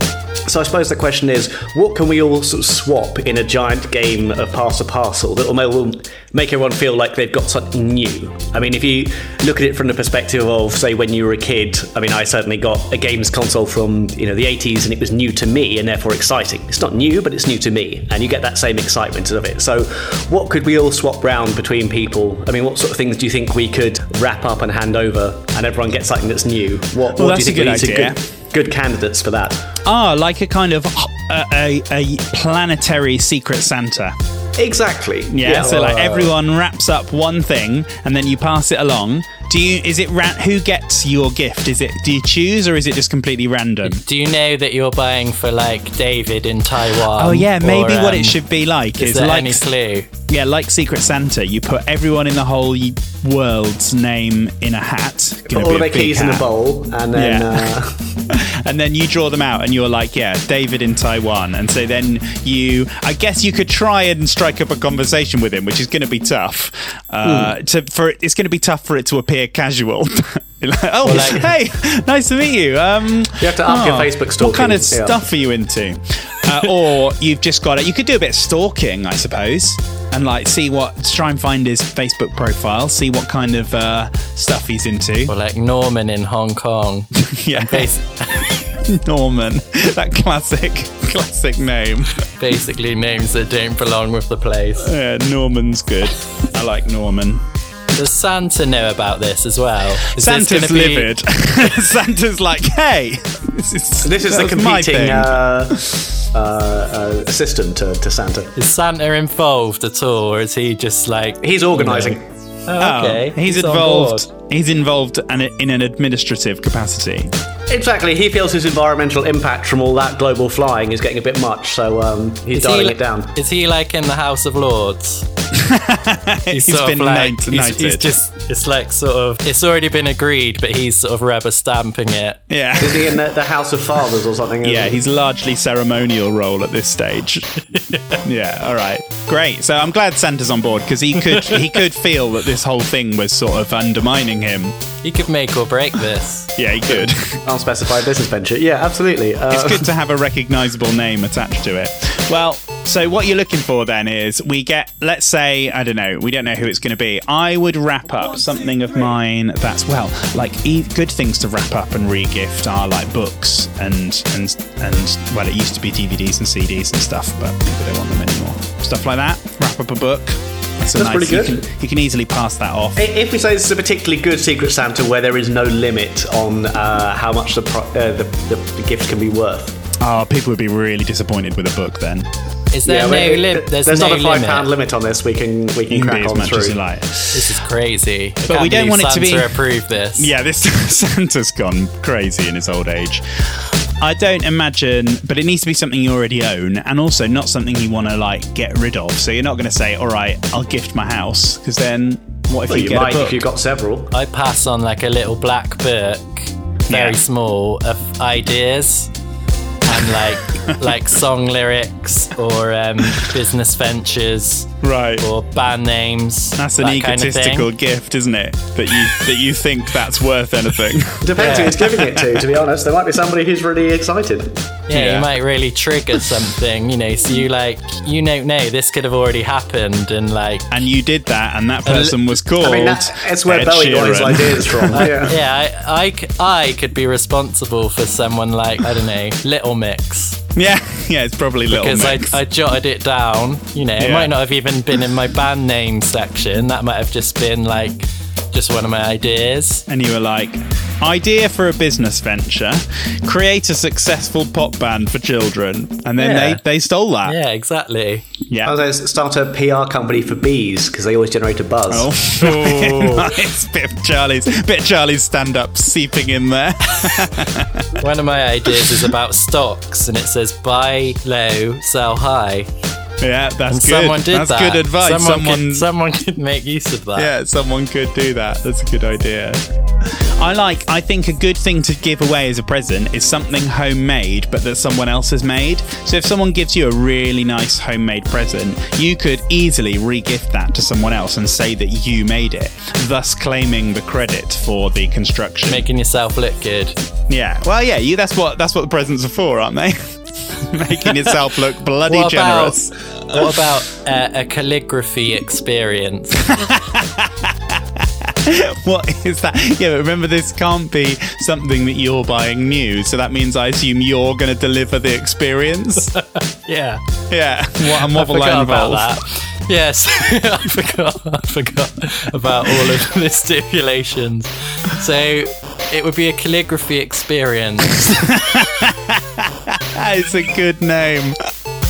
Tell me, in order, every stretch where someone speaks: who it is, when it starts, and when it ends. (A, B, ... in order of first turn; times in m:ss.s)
0:00.4-0:29.6 A
0:27.1-0:28.2 B
0:29.8-0:34.1 B
0:34.6-0:36.2 A
0:35.3-0:44.0 B
0:35.6-0:36.3 C
0:43.8-0:48.4 C
0:47.0-0:49.6 B
0:49.0-0:50.1 C
0:50.3-0:56.5 B
0:55.5-0:58.1 A
0:57.1-0:57.7 B
0:58.3-1:25.3 B
1:07.2-1:07.5 A
1:11.0-1:11.5 C
1:13.4-1:15.2 A
1:25.3-1:28.0 C
1:27.2-1:32.2 B
1:32.4-1:34.9 C
1:34.8-1:37.4 B
1:37.9-1:41.1 C
1:40.0-1:46.1 B
1:44.0-1:48.5 A
1:48.6-1:54.3 C
1:51.4-1:52.2 A
1:52.8-1:57.3 B
1:57.7-2:03.3 A
2:02.5-2:05.3 C
2:05.5-2:08.2 B
2:06.5-2:12.4 C
2:12.5-2:13.2 B
2:12.8-2:15.0 A
2:14.6-2:17.5 B
2:17.7-2:18.2 C
2:18.2-2:24.8 B
2:25.0-2:26.5 C
2:26.6-2:27.4 B
2:26.9-2:29.9 A
2:29.5-2:53.0 B
2:50.9-2:51.6 A
2:53.0-2:59.8 A
3:00.0-3:02.3 B
3:02.7-3:04.7 C
3:02.8-3:06.8 A
3:05.9-3:07.6 B
3:07.3-3:10.3 C
3:08.4-3:09.6 B
3:10.2-3:23.4 B
3:22.7-3:24.1 A
3:24.1-3:29.1 C
3:26.9-3:27.2 B
3:29.9-3:37.7 C
3:29.9-3:31.0 B
3:34.8-3:35.2 B
3:36.6-3:42.5 B
3:41.2-3:44.6 A
3:41.4-3:41.8 C
3:44.9-3:50.7 C
3:44.9-3:45.3 B
3:50.7-3:55.2 B
3:52.6-3:55.4 A
3:54.9-4:00.4 C
4:00.5-4:02.4 B
4:01.7-4:09.8 C
4:04.0-4:04.4 B
4:09.9-4:17.4 B
4:16.2-4:16.6 C
4:17.2-4:18.2 C
4:18.5-4:18.7 B
4:18.6-4:22.1 A
4:21.9-4:28.0 B
4:22.4-4:23.3 C
4:28.0-4:32.7 C
4:33.2-4:35.9 B
4:33.7-4:37.3 C
4:37.2-4:55.8 B
4:55.7-4:57.0 C
4:57.3-5:03.7 B
5:02.0-5:06.4 C
5:06.4-5:16.1 B
5:16.1-5:17.0 C
5:17.3-5:19.2 B
5:17.8-5:28.1 C
5:27.9-5:31.4 B